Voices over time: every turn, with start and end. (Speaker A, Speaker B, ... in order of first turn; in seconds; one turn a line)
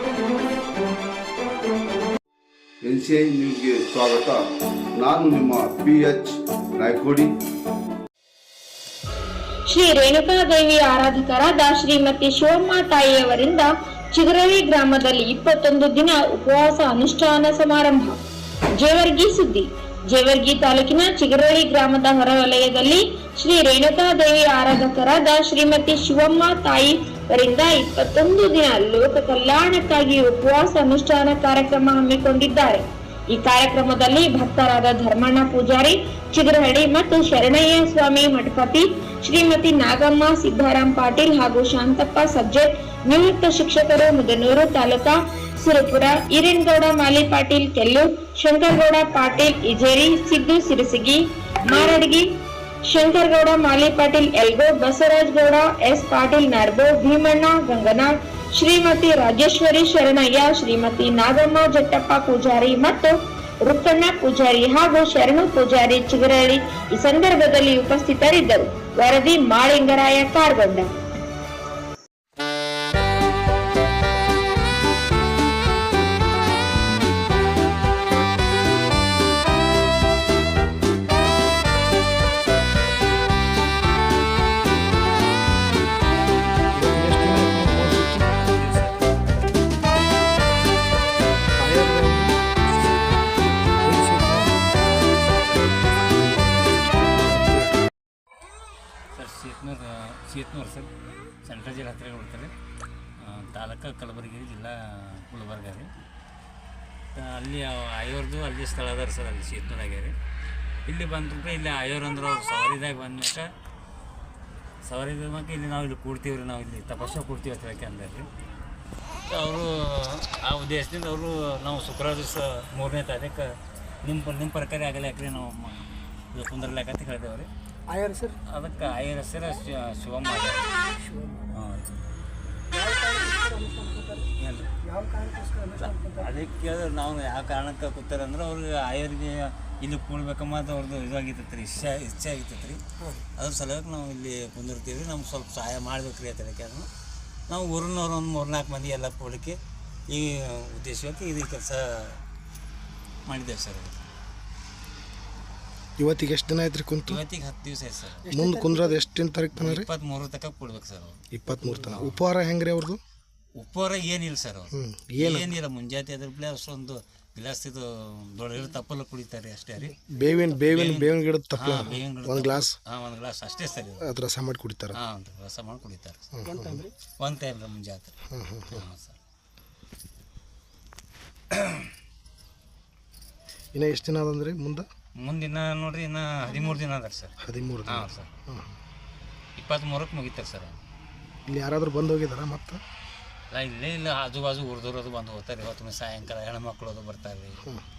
Speaker A: 2.8-7.3
Speaker B: 9.7-18.2
Speaker B: 18.8-70.9
Speaker C: 86.7-89.2
Speaker C: 91.6-92.3
Speaker C: 93.8-94.7
Speaker D: 95.3-95.8
Speaker C: 97.1-97.8
Speaker D: 99.1-100.9
Speaker D: 101.4-102.5
Speaker D: 103.2-105.9
Speaker D: 107.2-110.1
Speaker D: 110.9-113.5
Speaker D: 114.8-118.3
Speaker D: 119.3-123.5
Speaker D: 124.0-127.5
Speaker E: 127.9-128.3
Speaker D: 128.5-130.6
Speaker E: 131.1-131.4
Speaker D: 131.5-132.0
Speaker E: 132.7-134.3
Speaker D: 134.4-134.7
Speaker E: 134.9-136.3
Speaker D: 135.8-146.9
Speaker D: 147.5-149.6
Speaker D: 150.1-152.2
Speaker D: 153.3-154.1
Speaker C: 156.0-157.2
Speaker D: 157.1-158.3
Speaker C: 158.3-159.9
Speaker E: 158.3-159.0
Speaker D: 159.6-161.2
Speaker C: 161.3-163.0
Speaker D: 161.8-162.2
Speaker D: 163.6-170.0
Speaker C: 164.7-165.6
Speaker C: 170.0-172.8
Speaker D: 170.6-174.1
Speaker C: 174.0-175.0
Speaker D: 174.9-178.1
Speaker C: 176.4-176.8
Speaker E: 176.5-176.9
Speaker C: 178.3-178.8
Speaker D: 178.7-179.2
Speaker D: 181.5-181.9
Speaker C: 183.7-184.9
Speaker D: 185.2-187.4
Speaker C: 187.4-188.8
Speaker D: 187.9-188.3
Speaker D: 189.6-190.8
Speaker C: 191.5-192.8
Speaker D: 193.5-197.6